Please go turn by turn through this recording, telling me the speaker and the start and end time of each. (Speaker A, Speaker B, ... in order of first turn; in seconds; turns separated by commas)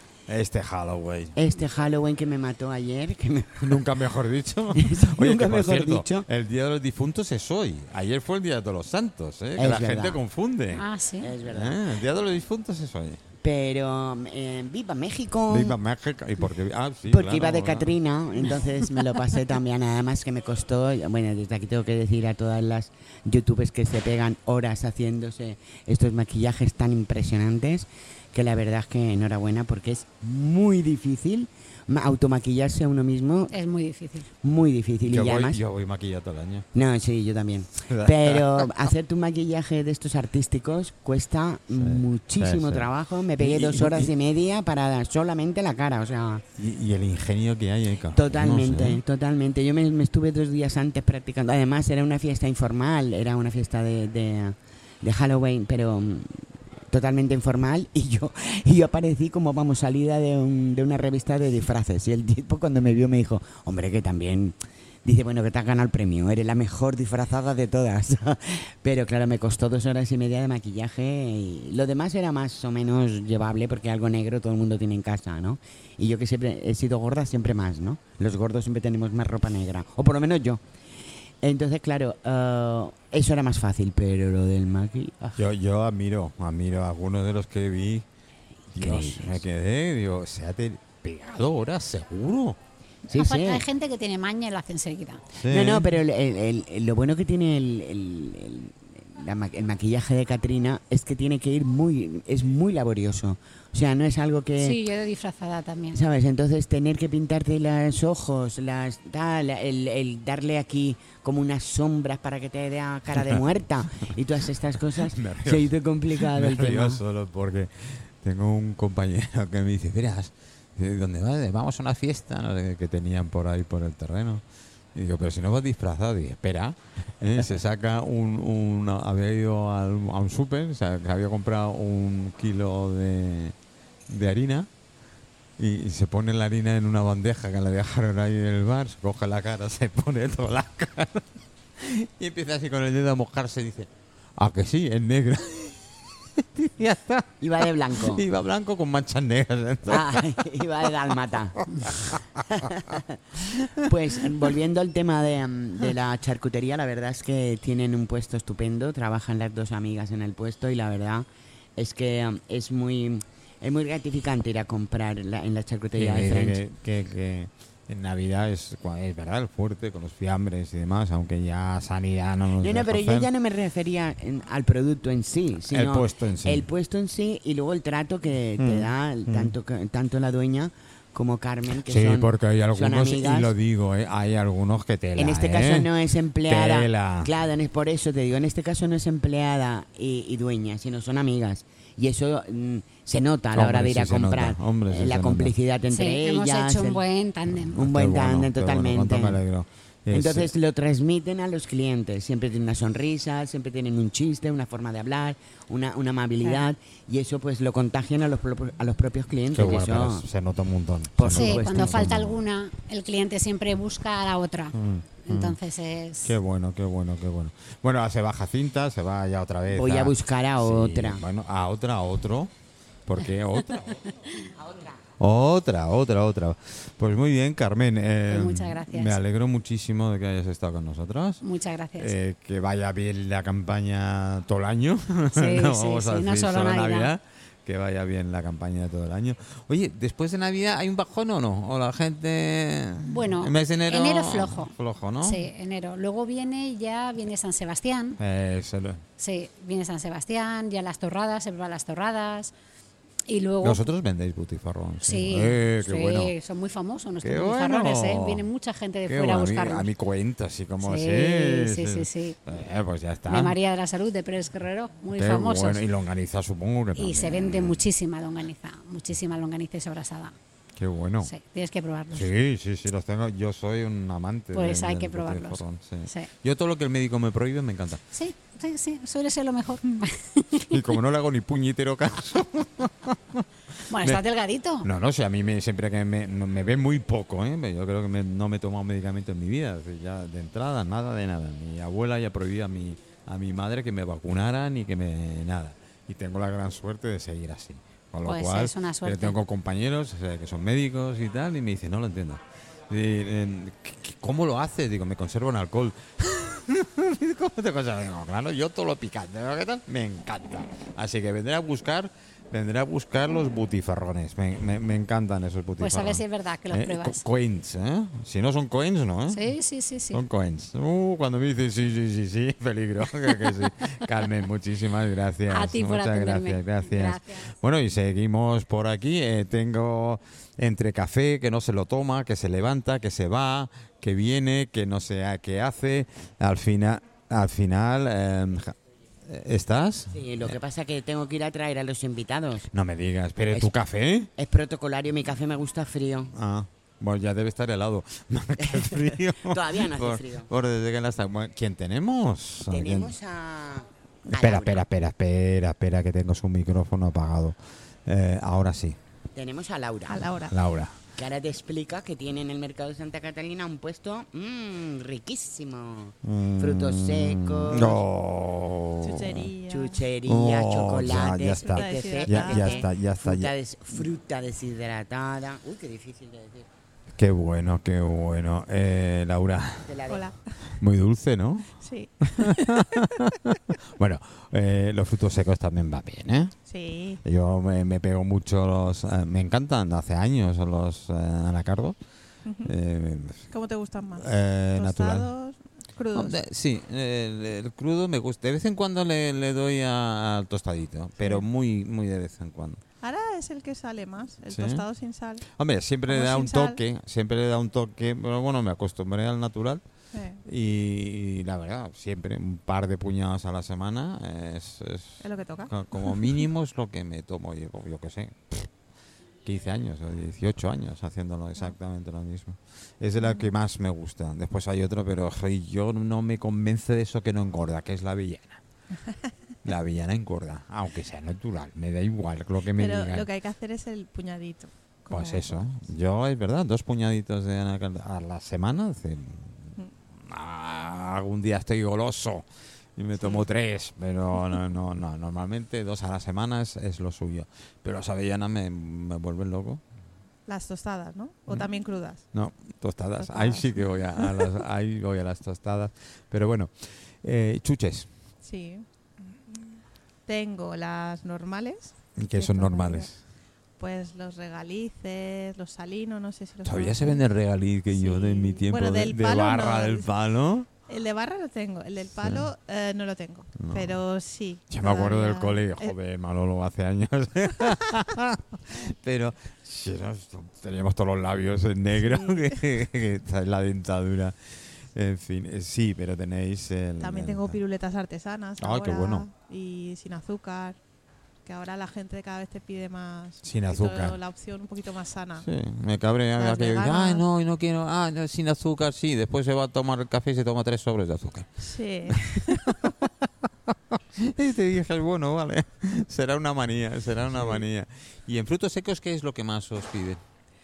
Speaker A: 0.3-1.4, Speaker B: 1.4-3.8, Speaker A: 3.6-10.8, Speaker B: 4.8-6.2, Speaker B: 9.6-10.2, Speaker C: 10.7-11.3, Speaker B: 11.2-11.8, Speaker A: 11.4-13.2, Speaker B: 13.4-15.7, Speaker A: 15.5-17.9, Speaker B: 17.1-33.5, Speaker C: 33.5-34.3, Speaker B: 34.4-35.6, Speaker A: 35.0-36.6, Speaker B: 36.7-46.4, Speaker A: 37.8-38.9, Speaker A: 41.7-44.1, Speaker A: 46.6-49.0, Speaker B: 48.1-80.6, Speaker B: 81.4-85.4, Speaker A: 85.3-88.0, Speaker A: 88.7-92.6, Speaker B: 88.8-89.4, Speaker B: 93.1-93.6, Speaker C: 93.1-95.2, Speaker A: 95.4-95.9, Speaker B: 95.5-104.8, Speaker C: 104.6-106.0, Speaker B: 105.9-117.0, Speaker A: 113.1-113.4, Speaker A: 114.9-124.4, Speaker A: 124.9-133.5, Speaker A: 134.1-134.7, Speaker A: 135.6-150.9, Speaker B: 147.4-148.2, Speaker B: 149.9-151.7, Speaker A: 151.7-152.8, Speaker B: 152.5-153.2, Speaker A: 153.4-154.4, Speaker B: 153.8-161.2, Speaker B: 161.8-166.6, Speaker A: 165.9-173.3, Speaker B: 172.6-183.5, Speaker A: 175.6-176.7, Speaker A: 178.6-179.6, Speaker A: 181.8-185.9, Speaker B: 185.2-197.0, Speaker A: 186.4-187.3, Speaker A: 193.5-195.5, Speaker C: 195.9-197.8, Speaker A: 197.5-200.5, Speaker B: 197.7-199.4, Speaker B: 200.1-210.2, Speaker A: 209.5-212.4, Speaker B: 211.2-212.1, Speaker C: 211.3-216.3, Speaker A: 214.7-215.6, Speaker A: 216.2-222.5, Speaker B: 219.7-221.2, Speaker A: 223.1-224.0, Speaker B: 224.6-225.0, Speaker A: 225.2-231.4, Speaker C: 228.3-229.2, Speaker C: 231.4-232.1, Speaker A: 232.0-245.5, Speaker C: 235.3-237.1, Speaker C: 243.0-248.2, Speaker A: 248.2-249.0, Speaker C: 249.2-252.5, Speaker C: 253.3-253.8, Speaker A: 253.6-256.3, Speaker C: 255.0-259.9, Speaker A: 257.2-258.5, Speaker A: 259.1-263.6, Speaker C: 260.8-262.4, Speaker C: 263.3-265.8, Speaker A: 265.1-267.8, Speaker C: 266.9-270.3, Speaker A: 270.8-271.3, Speaker C: 271.2-272.3, Speaker A: 272.1-278.0, Speaker C: 274.5-276.3, Speaker C: 278.1-280.9, Speaker A: 280.7-284.2, Speaker C: 283.9-284.9, Speaker A: 284.8-319.4, Speaker C: 298.2-299.4, Speaker C: 315.8-317.2, Speaker C: 319.3-320.2, Speaker A: 320.1-340.6, Speaker C: 325.5-327.5, Speaker B: 340.1-342.7, Speaker A: 342.7-344.3, Speaker B: 344.4-346.3, Speaker A: 346.3-353.1, Speaker B: 348.7-350.5, Speaker B: 352.7-354.8, Speaker A: 354.3-359.0, Speaker B: 359.3-360.3, Speaker D: 360.1-360.5, Speaker A: 360.5-360.9, Speaker B: 361.2-368.0, Speaker A: 366.2-369.5, Speaker D: 369.0-370.0, Speaker B: 369.7-376.7, Speaker A: 370.2-374.1, Speaker D: 371.4-372.9, Speaker A: 377.1-379.9, Speaker B: 379.9-380.3, Speaker D: 380.1-380.4, Speaker A: 380.7-381.7, Speaker D: 381.8-383.0, Speaker A: 382.3-386.5, Speaker D: 386.7-387.2, Speaker A: 387.2-391.9, Speaker D: 392.4-392.7, Speaker A: 392.6-393.5, Speaker D: 393.5-396.4, Speaker A: 394.1-395.3, Speaker A: 396.1-402.8, Speaker D: 403.0-405.4, Speaker A: 404.5-404.8, Speaker A: 405.4-409.8, Speaker D: 406.1-406.8, Speaker D: 410.1-410.4, Speaker A: 410.4-418.7, Speaker D: 415.2-416.3, Speaker A: 419.4-428.6, Speaker D: 423.2-423.5, Speaker A: 429.6-433.3, Speaker D: 432.8-435.6, Speaker A: 435.1-449.8, Speaker D: 443.2-443.4, Speaker D: 450.5-452.2, Speaker A: 452.3-458.1, Speaker D: 453.2-454.5, Speaker D: 458.4-463.1, Speaker A: 462.2-463.1, Speaker D: 463.8-467.2, Speaker A: 466.6-470.7, Speaker D: 467.9-470.1, Speaker D: 470.9-475.9, Speaker A: 472.2-472.5, Speaker A: 473.6-474.0, Speaker A: 474.7-487.6, Speaker D: 482.0-482.5, Speaker D: 487.0-490.8, Speaker A: 488.6-489.3, Speaker D: 491.4-495.5, Speaker A: 493.4-494.2, Speaker A: 495.4-510.2, Speaker D: 496.4-497.2, Speaker D: 501.6-502.8, Speaker D: 507.3-507.6